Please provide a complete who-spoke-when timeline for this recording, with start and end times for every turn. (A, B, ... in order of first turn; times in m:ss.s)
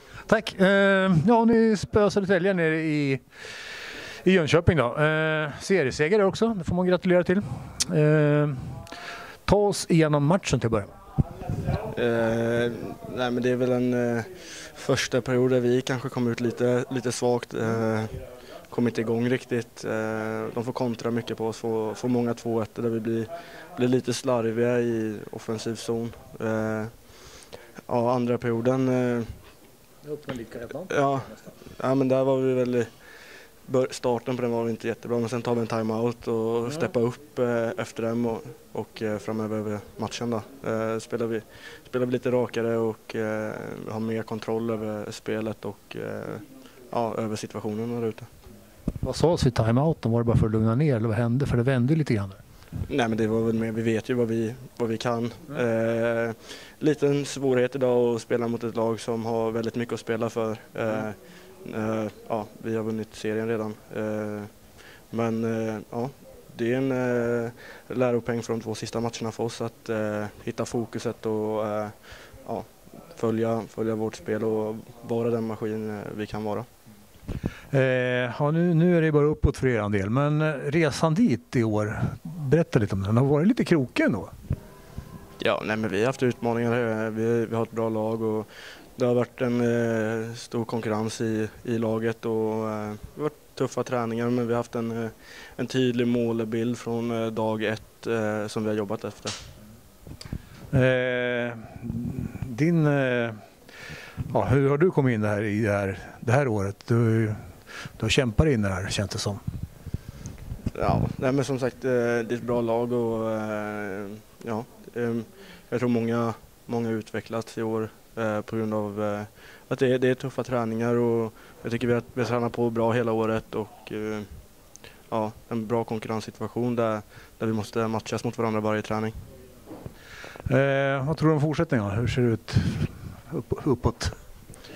0:00.3-0:03.2 A
0:04.2-0:08.8 A
0:09.5-0:10.9 A
0:11.9-0:26.9 B
0:27.9-0:29.3 B
0:30.0-0:30.9 A
0:30.9-0:32.9 B
0:33.7-0:48.3 B
0:49.0-0:52.4 A
0:52.9-1:04.5 B
1:05.1-1:16.7 B
1:17.7-1:24.3 A
1:25.4-1:39.4 B
1:40.7-1:43.4 A
1:44.3-1:47.4 A
1:48.0-1:49.4 A
1:50.7-2:04.3 B
2:05.1-2:09.2 B
2:10.5-2:14.2 A